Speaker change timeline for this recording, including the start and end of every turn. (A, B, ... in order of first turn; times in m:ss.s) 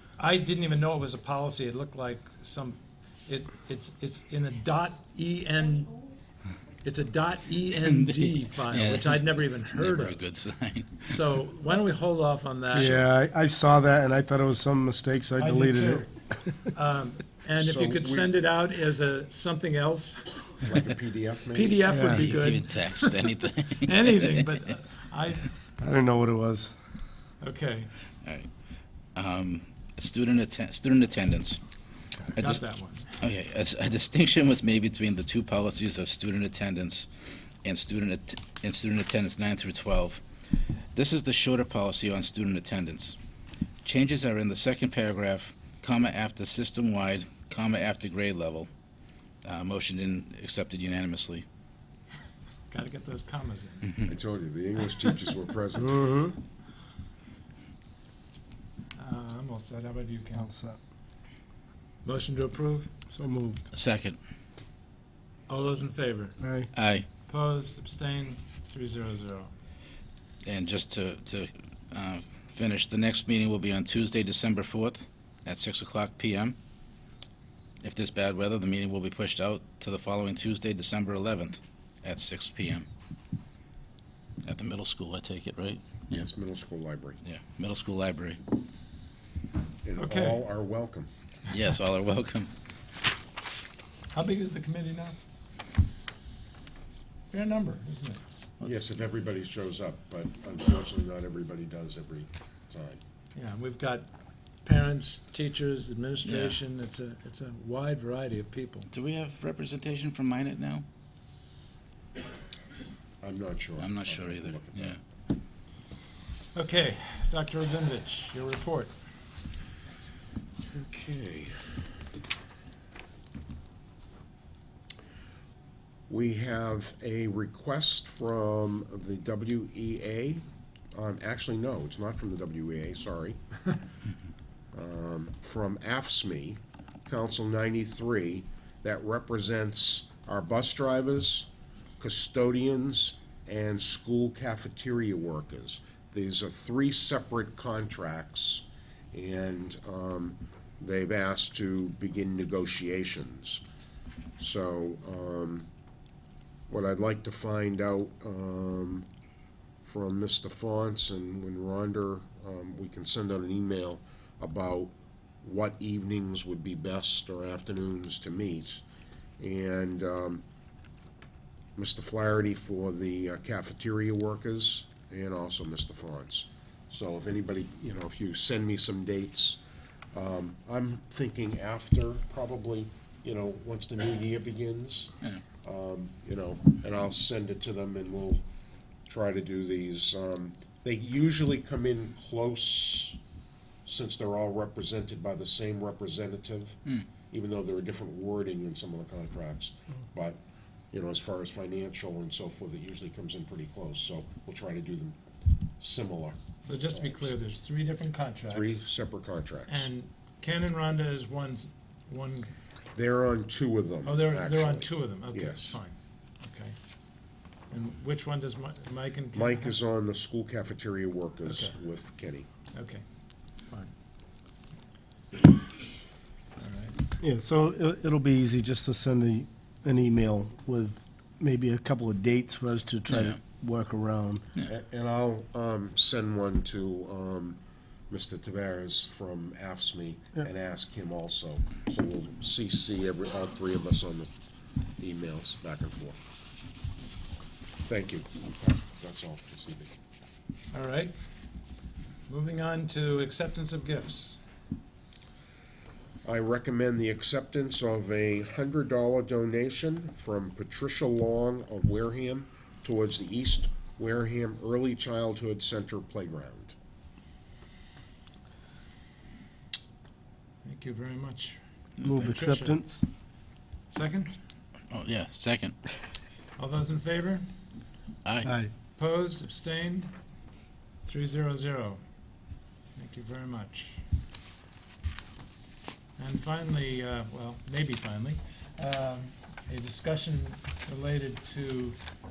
0:00.2-0:06.0 A
0:06.8-0:10.2 A
0:07.8-0:11.1 B
0:11.1-0:13.0 A
0:12.7-0:16.1 C
0:12.8-0:13.1 B
0:15.4-0:16.1 A
0:16.7-0:20.8 A
0:17.6-0:18.3 D
0:20.7-0:21.8 D
0:21.5-0:23.2 A
0:21.9-0:22.3 C
0:22.1-0:24.4 B
0:23.8-0:25.5 A
0:25.8-0:26.8 C
0:27.4-0:27.9 A
0:28.2-0:28.5 B
0:29.2-0:31.6 B
0:32.4-0:32.6 B
0:32.4-0:33.2 A
0:33.2-0:40.2 B
0:40.9-0:43.2 B
0:43.8-0:48.7 B
0:49.4-0:51.4 B
0:52.7-0:53.9 A
0:54.1-0:56.2 D
0:55.9-0:56.4 C
0:59.0-1:00.5 A
1:00.4-1:00.8 C
1:02.0-1:02.9 A
1:03.1-1:03.6 C
1:03.7-1:04.2 B
1:05.5-1:06.4 A
1:06.4-1:06.7 C
1:06.8-1:07.1 B
1:07.3-1:09.5 A
1:10.4-1:16.6 B
1:17.8-1:22.9 B
1:24.4-1:26.3 B
1:26.1-1:27.2 D
1:27.2-1:28.4 B
1:29.8-1:31.1 D
1:30.0-1:30.4 A
1:31.5-1:32.5 B
1:34.1-1:35.2 A
1:37.3-1:38.2 A
1:38.6-1:43.0 D
1:43.3-1:44.1 A
1:44.6-1:48.9 A
1:46.2-1:46.6 B
1:48.9-1:50.8 B
1:53.2-1:55.0 D
1:53.8-1:55.0 B
1:56.6-1:58.9 A
2:00.7-2:01.7 D
2:06.1-2:10.4 D
2:10.9-2:13.4 D
2:14.7-2:21.5 D
2:22.0-2:33.6 D
2:34.4-2:35.7 D
2:36.7-2:39.1 D
2:39.8-2:48.8 D
2:49.4-2:50.4 D
2:51.8-2:59.6 D
3:00.1-3:05.1 D
3:05.6-3:08.4 D
3:09.1-3:13.2 D
3:13.9-3:16.8 D
3:17.3-3:20.4 D
3:20.9-3:25.2 D
3:25.8-3:26.4 D
3:26.7-3:28.8 A
3:26.9-3:27.3 D
3:28.5-3:29.9 D
3:29.7-3:32.5 A
3:32.9-3:35.8 D
3:34.0-3:36.8 A
3:37.7-3:39.8 A
3:39.3-3:42.5 D
3:41.5-3:41.7 A
3:42.7-3:43.0 A
3:46.6-3:47.0 A
3:47.2-3:54.4 C
3:53.1-3:53.4 B
3:54.6-4:04.3 D
4:05.0-4:06.2 D
4:07.9-4:09.9 D
4:10.7-4:11.1 A
4:12.3-4:14.4 A
4:16.2-4:26.8 D
4:30.6-4:31.6 A
4:32.0-4:33.0 C
4:32.2-4:32.8 A
4:33.9-4:34.3 A
4:34.9-4:35.8 B
4:36.6-4:37.5 A
4:38.2-4:38.5 B
4:38.4-4:38.7 C
4:39.0-4:40.1 A
4:41.0-4:42.0 A
4:43.0-4:44.0 A
4:46.2-4:52.0 A